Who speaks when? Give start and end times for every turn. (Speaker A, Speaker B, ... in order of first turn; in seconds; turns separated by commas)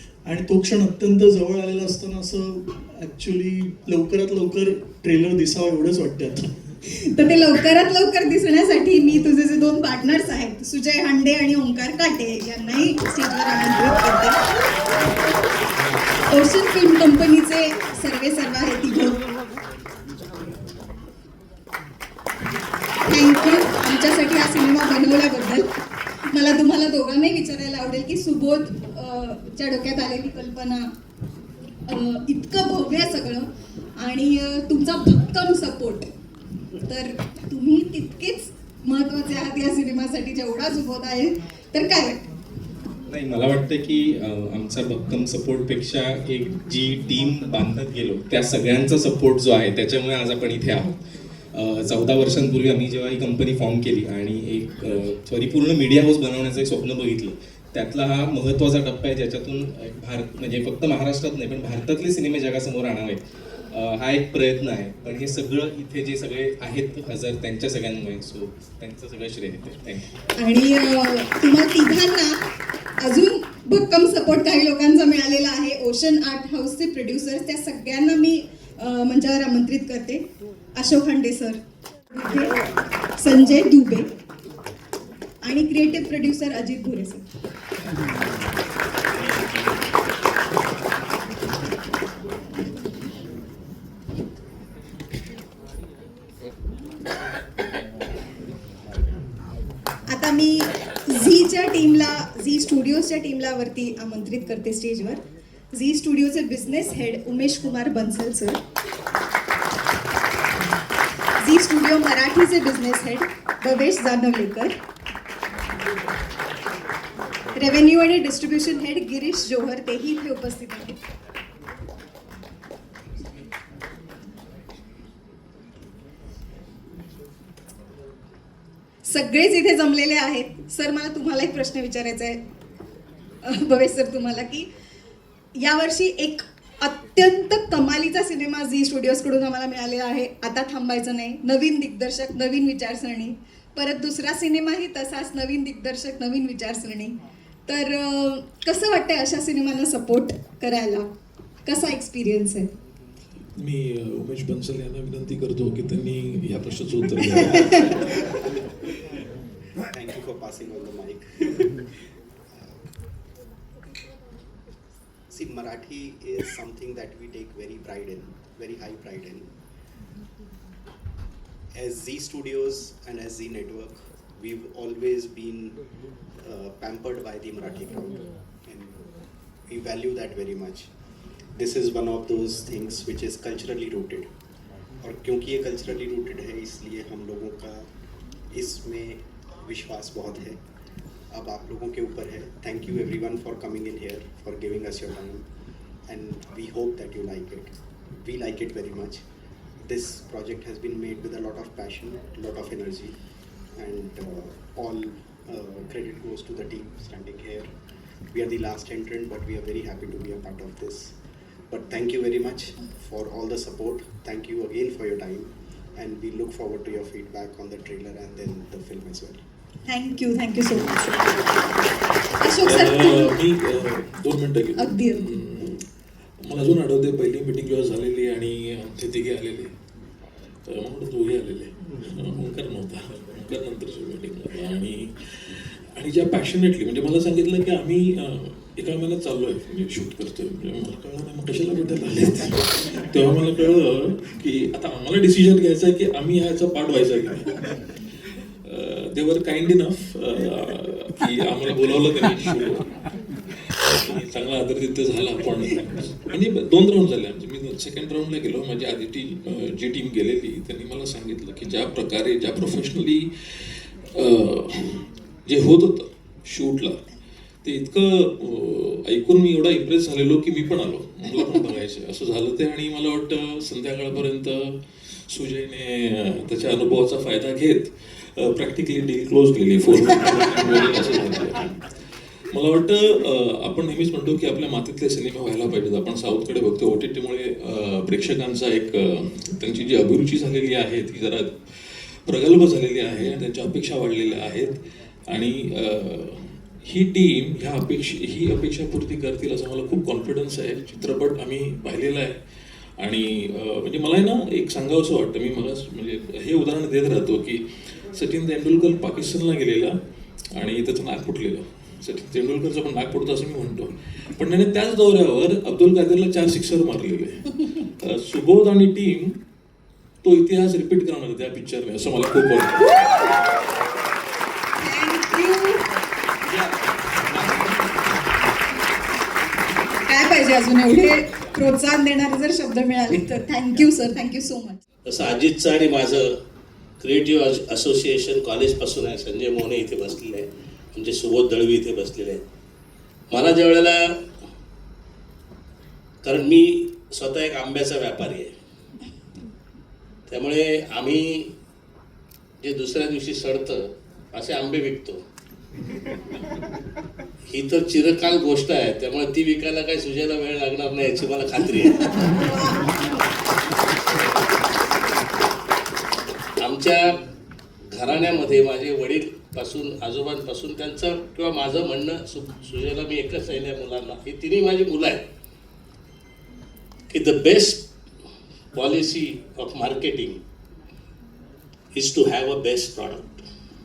Speaker A: 0.2-6.4, Speaker B: 6.9-14.4, Speaker B: 16.3-19.2, Speaker B: 23.1-25.6, Speaker B: 26.3-30.9, Speaker B: 31.9-33.5, Speaker B: 34.0-36.0, Speaker B: 36.9-42.2, Speaker C: 43.2-50.9, Speaker D: 46.0-46.7, Speaker C: 51.5-63.2, Speaker D: 53.3-54.1, Speaker C: 63.7-70.0, Speaker B: 70.4-72.4, Speaker B: 73.0-81.6, Speaker B: 82.1-82.5, Speaker B: 83.2-84.1, Speaker B: 85.4-87.2, Speaker B: 100.1-105.2, Speaker B: 105.7-108.6, Speaker B: 111.4-114.7, Speaker B: 117.5-121.0, Speaker B: 129.0-132.4, Speaker B: 133.4-134.7, Speaker B: 135.6-147.1, Speaker B: 147.7-151.1, Speaker B: 151.7-152.7, Speaker E: 153.5-158.1, Speaker D: 159.9-161.7, Speaker D: 162.5-162.8, Speaker D: 165.3-169.5, Speaker D: 171.7-175.8, Speaker D: 176.4-179.0, Speaker D: 179.7-180.9, Speaker D: 181.6-184.3, Speaker D: 185.0-187.8, Speaker D: 188.5-190.6, Speaker D: 191.3-195.4, Speaker D: 196.1-199.2, Speaker D: 199.8-203.1, Speaker D: 203.8-207.7, Speaker D: 208.3-211.1, Speaker D: 211.7-219.4, Speaker B: 219.8-221.2, Speaker B: 222.4-223.3, Speaker E: 222.6-225.8, Speaker B: 224.8-225.2, Speaker E: 226.4-229.7, Speaker E: 230.7-252.9, Speaker E: 253.5-267.0, Speaker E: 267.6-281.8, Speaker E: 282.5-302.3, Speaker E: 303.0-309.9, Speaker E: 310.5-319.4, Speaker E: 320.2-322.9, Speaker B: 324.8-325.8, Speaker B: 330.0-334.8, Speaker F: 335.1-336.3, Speaker F: 337.0-342.4, Speaker F: 343.3-344.1, Speaker F: 346.2-348.5, Speaker F: 350.3-351.5, Speaker F: 352.6-355.2, Speaker F: 357.5-362.2, Speaker B: 362.2-362.8, Speaker F: 366.6-367.2, Speaker F: 367.9-375.2, Speaker F: 377.1-377.9, Speaker F: 378.7-380.4, Speaker F: 381.9-383.3